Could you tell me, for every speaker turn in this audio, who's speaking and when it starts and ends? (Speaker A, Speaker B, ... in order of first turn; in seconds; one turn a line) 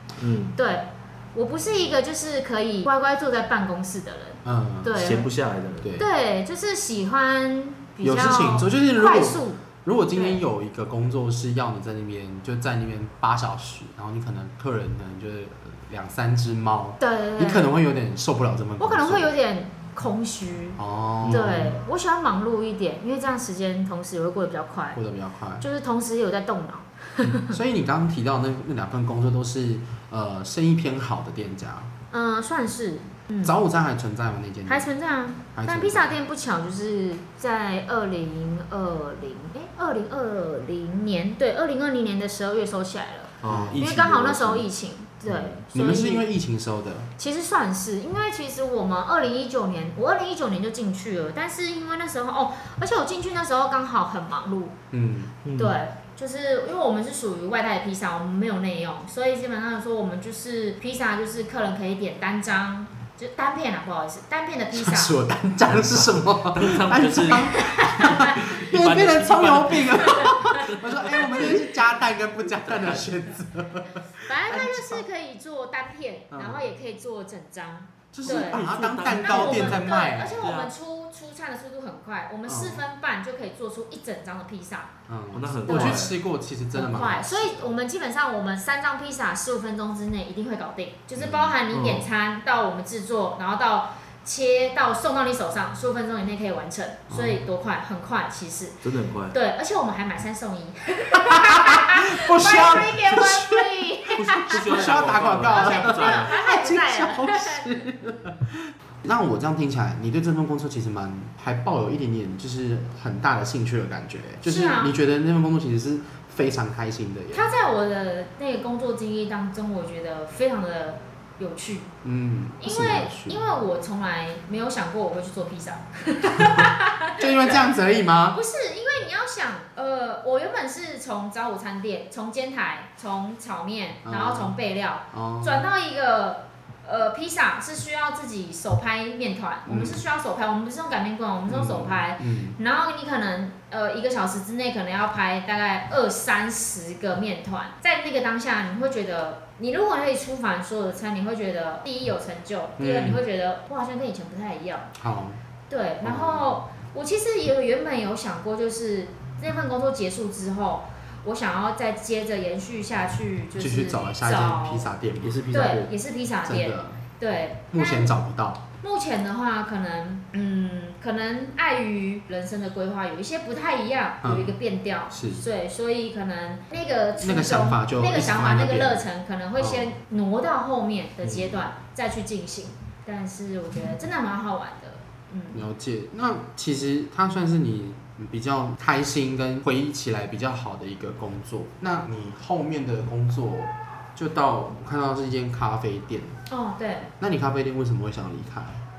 Speaker A: 0.2-0.6
Speaker B: 0.6-5.3
Speaker C: 4.5-5.1
Speaker A: 4.9-5.9
Speaker B: 6.0-10.4
Speaker C: 8.0-19.3
Speaker B: 17.0-17.7
Speaker B: 18.8-25.0
Speaker C: 20.8-21.8
Speaker A: 21.2-21.6
Speaker C: 24.9-25.6
Speaker B: 25.6-27.6
Speaker C: 27.4-31.9
Speaker B: 32.1-33.6
Speaker C: 33.4-34.9
Speaker B: 34.7-46.3
Speaker C: 35.5-36.1
Speaker A: 43.4-44.7
Speaker C: 43.5-43.8
Speaker A: 45.3-45.6
Speaker C: 45.7-47.1
Speaker B: 47.2-54.8
Speaker C: 54.9-55.4
Speaker A: 55.5-55.8
Speaker B: 55.5-65.2
Speaker C: 64.7-75.0
Speaker A: 65.7-71.6
Speaker B: 67.5-68.4
Speaker B: 70.2-70.5
Speaker A: 72.8-73.0
Speaker B: 74.2-84.9
Speaker C: 76.3-76.7
Speaker C: 78.1-80.5
Speaker A: 78.2-79.9
Speaker A: 80.4-80.7
Speaker C: 82.5-82.8
Speaker C: 85.1-87.7
Speaker A: 85.3-86.2
Speaker B: 85.7-86.0
Speaker B: 86.7-107.9
Speaker C: 91.2-91.6
Speaker A: 91.7-92.1
Speaker C: 97.1-97.4
Speaker A: 98.8-99.4
Speaker C: 101.3-117.5
Speaker A: 104.2-106.4
Speaker B: 114.5-115.0
Speaker B: 117.3-121.9
Speaker C: 122.0-123.4
Speaker B: 122.6-127.5
Speaker C: 127.2-128.4
Speaker B: 128.3-154.9
Speaker C: 134.1-134.6
Speaker C: 135.1-135.7
Speaker C: 139.7-140.0
Speaker C: 141.5-142.6
Speaker C: 152.8-153.2
Speaker C: 155.0-155.4
Speaker B: 155.7-164.9
Speaker C: 156.0-156.5
Speaker C: 163.6-165.4
Speaker A: 165.2-165.9
Speaker B: 165.5-168.1
Speaker C: 166.4-167.0
Speaker C: 167.7-168.6
Speaker B: 168.8-185.6
Speaker C: 174.2-174.6
Speaker C: 175.1-175.4
Speaker C: 177.2-179.0
Speaker C: 179.6-179.9
Speaker C: 185.5-196.4
Speaker B: 196.5-197.1
Speaker C: 197.2-198.8